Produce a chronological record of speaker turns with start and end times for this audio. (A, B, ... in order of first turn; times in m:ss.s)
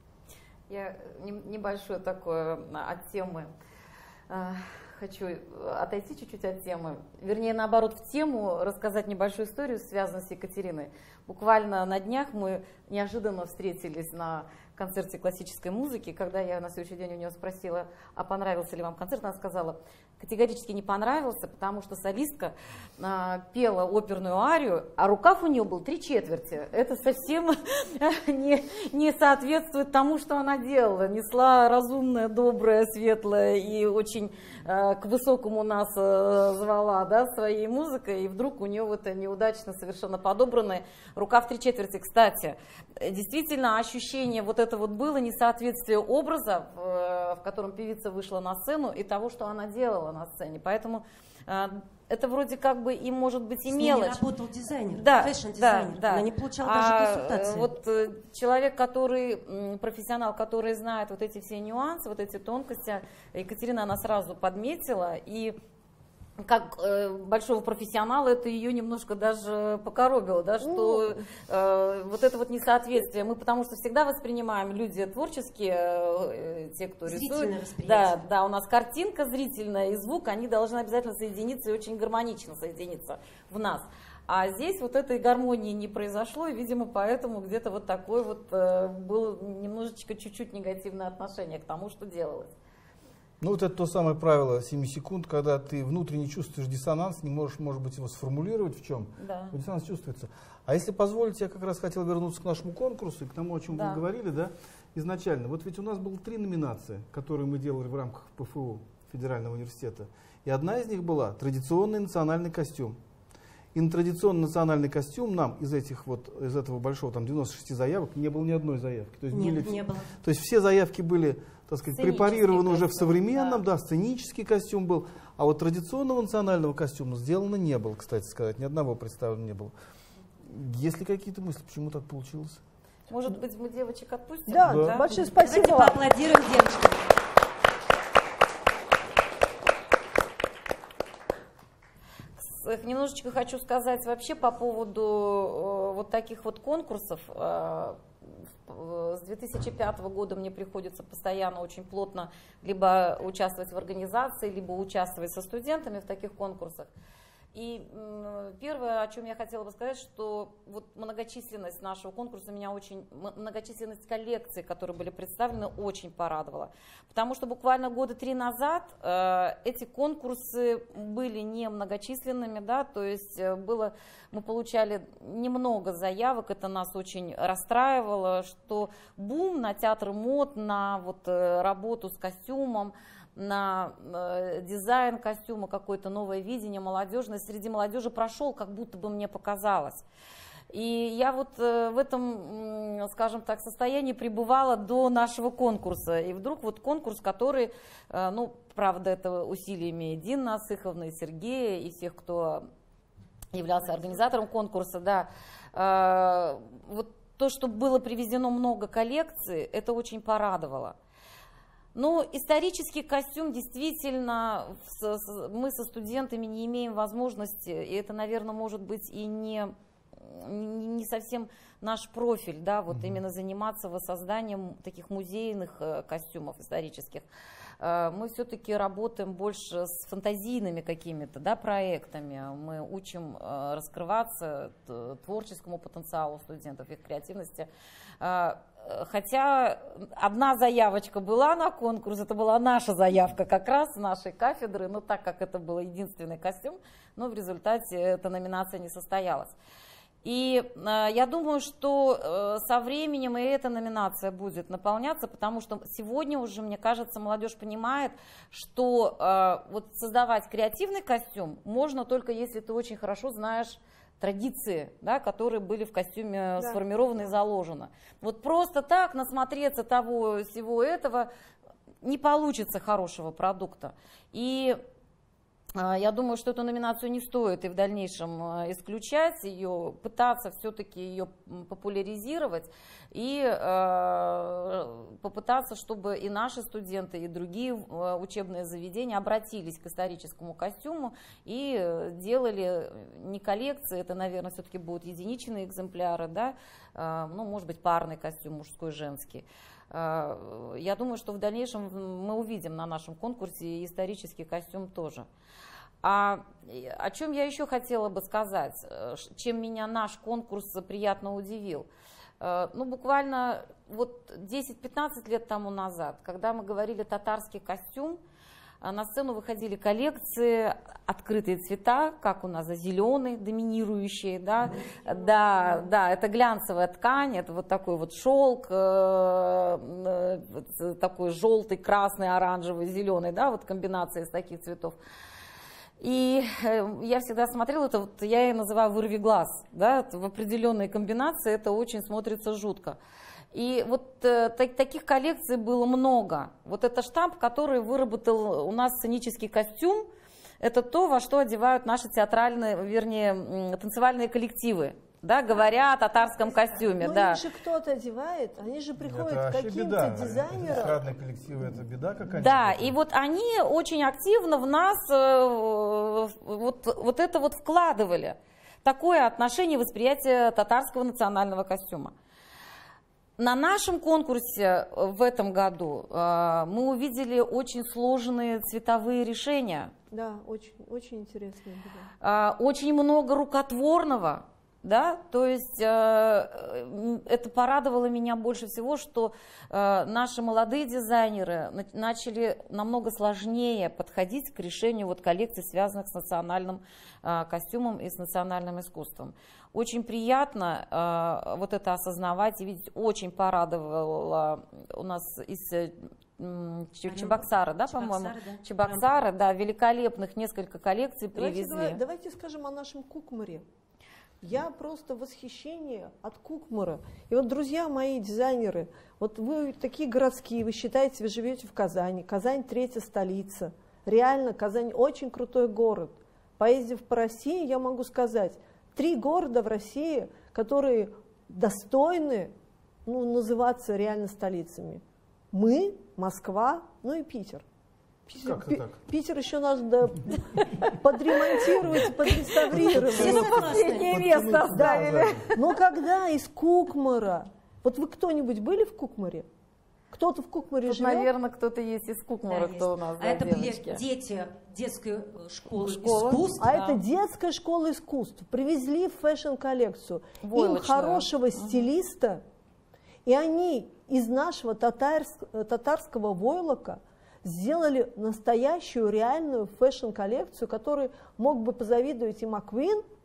0:00.7-0:03.5 A
0:04.3-0:54.2 A
0:53.7-0:57.7 B
0:54.9-1:05.6 A
1:06.4-1:32.5 A
1:10.6-1:11.2 C
1:17.1-1:18.2 B
1:33.4-1:53.0 D
1:39.2-1:39.5 A
1:43.7-1:44.0 A
1:53.7-2:09.7 D
1:59.3-2:00.1 B
2:01.9-2:03.6 A
2:10.4-2:12.6 D
2:13.1-2:15.1 A
2:14.5-2:16.0 C
2:14.6-2:15.0 D
2:15.1-2:17.1 B
2:22.4-2:28.0 A
2:28.7-2:36.9 A
2:37.5-3:10.0 A
3:10.7-3:22.6 A
3:23.5-3:31.0 A
3:32.0-3:47.3 A
3:42.9-3:43.2 D
3:47.8-3:57.7 A
3:58.2-4:09.6 A
4:10.2-4:31.3 A
4:32.0-4:34.8 A
4:35.8-5:05.3 A
5:06.0-5:11.9 A
5:12.4-5:18.2 A
5:18.8-5:35.0 A
5:36.0-5:43.0 A
5:43.5-5:50.1 A
5:50.6-5:57.4 A
5:56.4-6:01.0 C
5:59.0-6:03.0 D
6:02.4-6:12.1 A
6:13.4-6:19.9 A
6:20.1-6:22.1 C
6:22.2-6:52.0 A
6:47.1-6:49.1 B
6:51.3-6:53.6 C
6:54.4-7:12.5 C
7:13.1-7:17.6 C
7:18.3-7:23.6 C
7:18.4-7:19.0 D
7:22.7-7:25.5 D
7:22.8-7:24.4 B
7:23.2-7:25.7 A
7:24.7-7:29.5 C
7:30.1-7:31.3 C
7:30.8-7:34.0 A
7:32.5-7:37.0 B
7:35.8-7:36.4 A
7:36.6-7:42.4 C
7:40.4-7:41.9 A
7:43.3-7:53.0 C